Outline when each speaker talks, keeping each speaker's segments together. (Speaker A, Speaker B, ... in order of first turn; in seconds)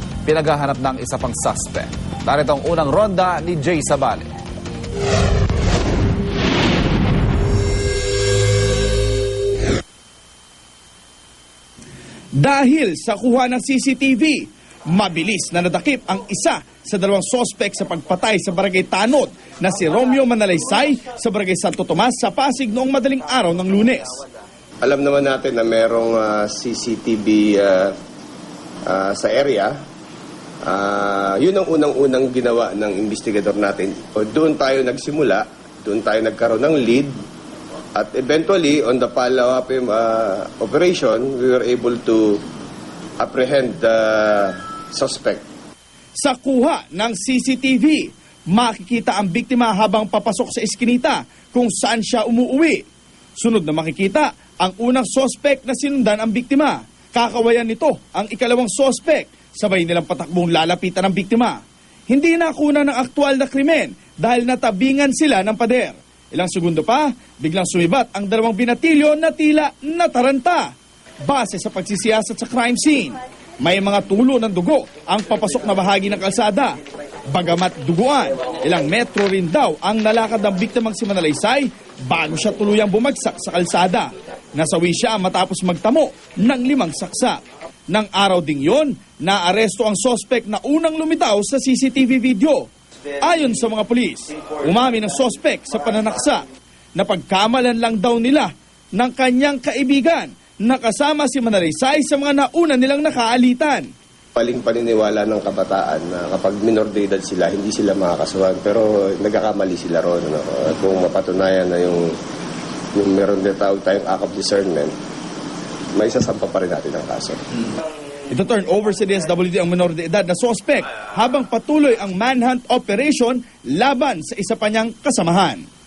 Speaker A: 0.2-4.3
Speaker B: 12.4-24.2, 46.2-52.8, 53.4-61.6, 62.1-70.7, 71.2-76.8, 77.3-87.4, 87.9-92.7, 93.2-103.9, 118.3-125.6
Speaker C: 24.8-27.9, 28.9-29.7, 30.6-37.1, 38.0-42.4, 43.2-45.5, 104.3-112.2, 113.0-114.9, 116.0-117.4